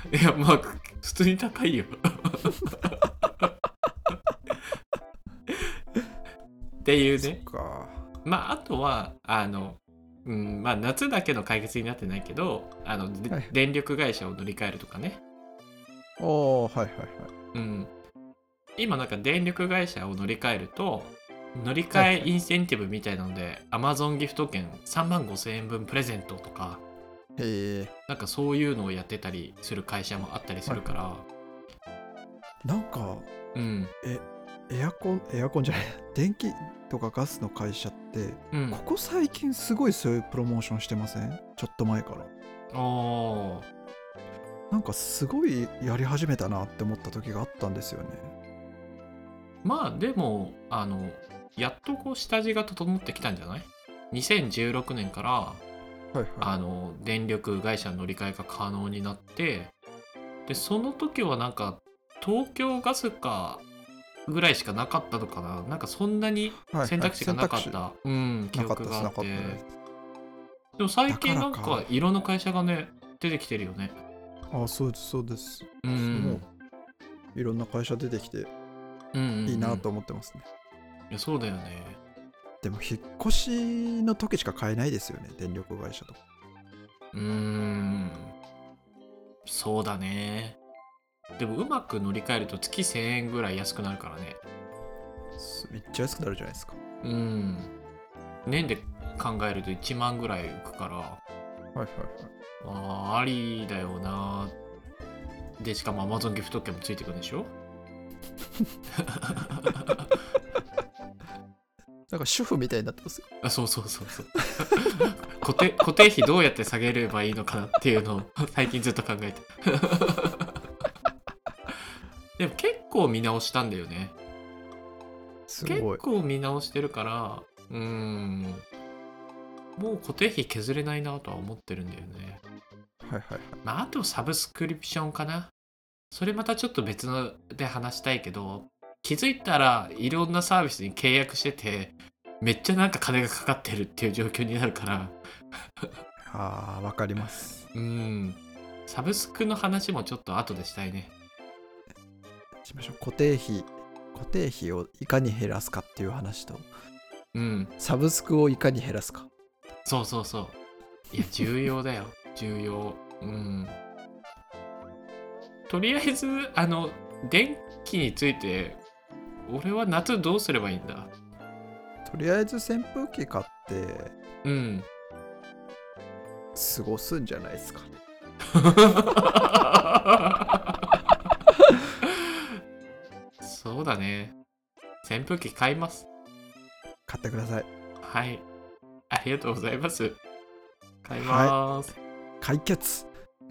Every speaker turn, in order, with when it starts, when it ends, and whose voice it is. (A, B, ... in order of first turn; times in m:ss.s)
0:00.1-0:03.5 A
0:06.8-0:07.4 A
0:07.2-0:08.0 B
0:08.2-0:15.2 A
0:16.2-0:17.3 B
0:17.5-0:17.9 A
0:18.8-0:26.8 A
0:21.9-0:22.3 B
0:27.4-0:27.9 B
0:28.1-0:31.2 A
0:30.7-0:31.0 B
0:32.6-0:33.3 B
0:33.6-0:33.9 A
0:34.0-0:42.3 B
0:38.5-0:38.8 A
0:42.7-0:43.7 A
0:44.7-0:48.3 B
0:49.6-0:55.6 A
0:56.1-0:56.5 B
0:56.4-0:59.7 A
1:00.5-1:03.6 A
1:04.3-1:09.6 A
1:06.7-1:07.8 B
1:08.5-1:09.6 B
1:10.8-1:14.0 A
1:11.1-1:11.9 B
1:14.5-1:16.4 B
1:15.8-1:16.4 A
1:17.4-1:18.5 B
1:19.1-1:19.8 A
1:19.5-1:20.4 B
1:21.1-1:22.0 A
1:22.6-1:26.2 B
1:27.1-1:28.3 A
1:29.4-1:30.6 A
1:31.4-1:34.4 A
1:35.4-1:36.8 B
1:37.0-1:37.7 A
1:38.5-1:41.2 A
1:41.8-1:42.3 B
1:42.6-1:44.5 A
1:45.6-1:47.5 A
1:49.0-1:50.1 A
1:52.1-1:53.3 B
1:53.4-2:00.6 A
2:02.4-2:04.2 A
2:05.5-2:06.0 B
2:05.6-2:08.6 A
2:09.8-2:12.4 A
2:13.0-2:13.6 B
2:13.6-2:15.5 A
2:16.1-2:25.2 A
2:26.3-2:27.6 B
2:27.7-2:31.1 A
2:32.6-2:36.7 B
2:37.3-2:37.7 A
2:37.8-2:39.3 B
2:39.8-2:40.6 A
2:41.1-2:43.8 A
2:45.7-2:48.8 A
2:49.5-2:51.1 A
2:52.0-2:54.2 B
2:54.4-2:54.9 A
2:56.6-2:57.9 B
2:58.5-3:00.8 A
3:02.0-3:02.5 A
3:03.4-3:04.4 A
3:05.0-3:06.1 A
3:07.1-3:07.7 B
3:08.0-3:08.4 A
3:09.1-3:10.2 A
3:11.0-3:11.9 A
3:11.2-3:11.6 B
3:12.4-3:13.1 B